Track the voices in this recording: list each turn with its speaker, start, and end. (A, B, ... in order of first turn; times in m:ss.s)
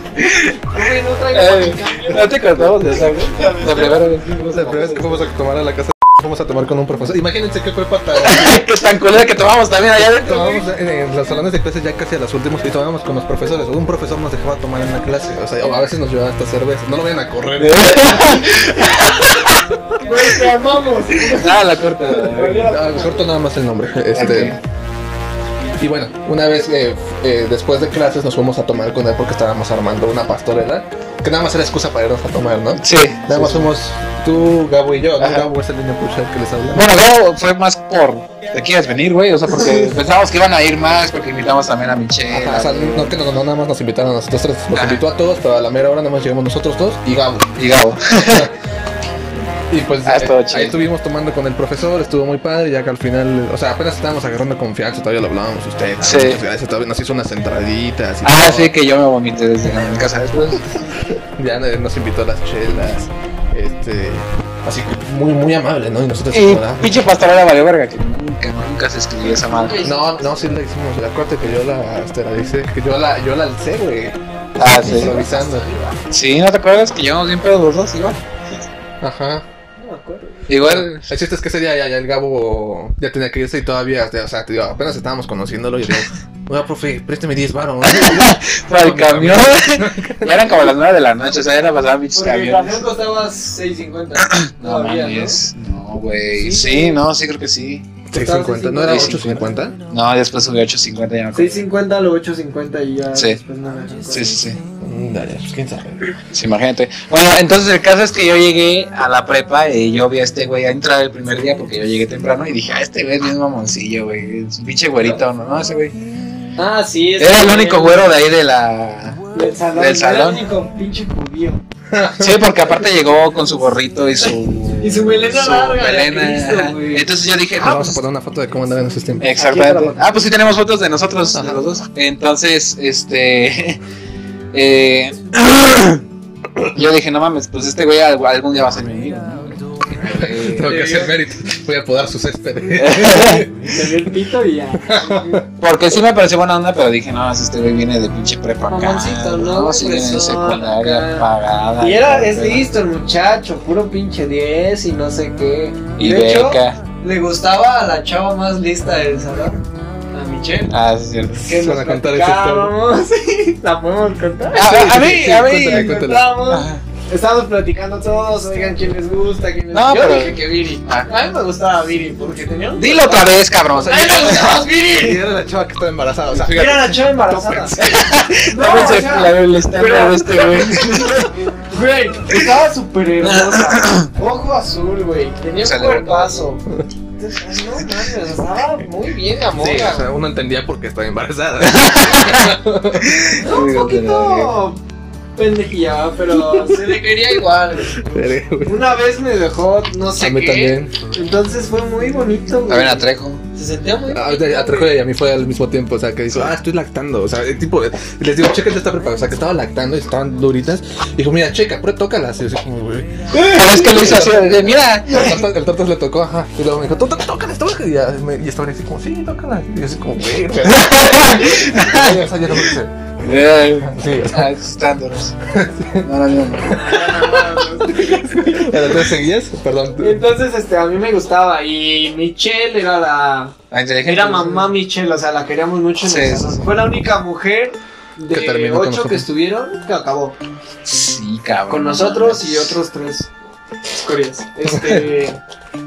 0:00.2-0:00.7 A
0:00.7-0:05.2 B
0:01.3-0:05.0 A
0:04.5-0:08.6 C
0:08.2-0:10.6 A
0:10.1-0:19.0 C
0:17.6-0:19.5 A
0:20.0-0:23.3 B
0:21.2-0:22.7 A
0:22.6-0:24.6 C
0:24.1-0:24.6 A
0:25.8-0:36.9 C
0:32.8-0:33.6 A
0:35.2-0:35.5 A
0:36.7-0:43.1 A
0:42.3-0:47.6 C
0:44.8-0:45.0 A
0:47.6-0:48.5 A
0:48.1-0:48.5 C
0:49.7-0:58.7 C
0:50.0-0:50.8 A
0:56.0-0:56.4 A
0:58.2-1:00.9 A
1:01.1-1:07.0 C
1:06.3-1:09.8 A
1:09.3-1:10.4 B
1:09.8-1:15.7 C
1:14.6-1:15.2 A
1:15.0-1:16.0 B
1:16.1-1:18.2 A
1:19.0-1:19.4 C
1:19.8-1:20.4 B
1:20.5-1:21.1 A
1:20.6-1:30.7 C
1:27.8-1:32.8 A
1:32.2-1:35.4 B
1:34.2-1:37.9 A
1:36.3-1:37.0 B
1:38.1-1:39.8 C
1:38.1-1:39.4 B
1:38.9-1:41.6 A
1:41.4-1:44.4 B
1:43.1-1:43.4 A
1:44.1-1:44.6 A
1:44.8-1:46.1 C
1:46.3-1:56.0 A
1:56.6-1:58.1 B
1:57.2-2:00.4 A
1:59.3-2:01.6 B
2:01.9-2:02.5 C
2:02.2-2:08.0 A
2:04.2-2:07.1 B
2:07.6-2:09.3 C
2:09.2-2:13.8 A
2:09.2-2:10.2 B
2:11.3-2:11.6 C
2:14.5-2:16.0 A
2:16.7-2:20.8 A
2:20.1-2:23.9 C
2:20.7-2:21.2 B
2:22.8-2:23.5 A
2:23.5-2:25.4 B
2:24.8-2:25.5 C
2:25.6-2:32.7 A
2:28.7-2:40.7 B
2:36.0-2:36.8 A
2:40.7-2:41.5 A
2:41.4-2:55.2 B
2:41.5-2:42.8 C
2:44.5-2:46.8 A
2:44.6-2:46.4 C
2:49.7-2:51.1 A
2:52.8-2:54.6 A
2:53.7-2:57.7 C
2:56.4-2:57.8 B
2:57.7-3:01.3 A
2:58.4-3:06.6 B
3:03.2-3:04.1 A
3:05.6-3:06.4 A
3:07.2-3:10.1 B
3:09.5-3:13.4 C
3:11.6-3:14.5 A
3:13.4-3:14.8 B
3:15.4-3:24.9 B
3:16.3-3:17.0 C
3:17.9-3:18.9 C
3:20.2-3:21.0 C
3:22.7-3:23.4 A
3:24.1-3:33.2 C
3:33.4-3:34.0 B
3:33.4-3:35.4 A
3:33.8-3:42.9 C
3:40.6-3:42.2 A
3:43.2-3:45.4 A
3:43.8-3:44.5 C
3:45.5-3:46.1 C
3:46.0-3:47.0 A
3:46.7-3:49.1 B
3:46.7-3:50.2 C
3:50.0-4:00.4 B
3:53.7-3:54.8 A
3:56.0-3:56.6 A
3:58.3-3:59.3 C
4:00.8-4:02.8 A
4:01.7-4:03.3 B
4:04.0-4:05.4 B
4:04.7-4:05.0 C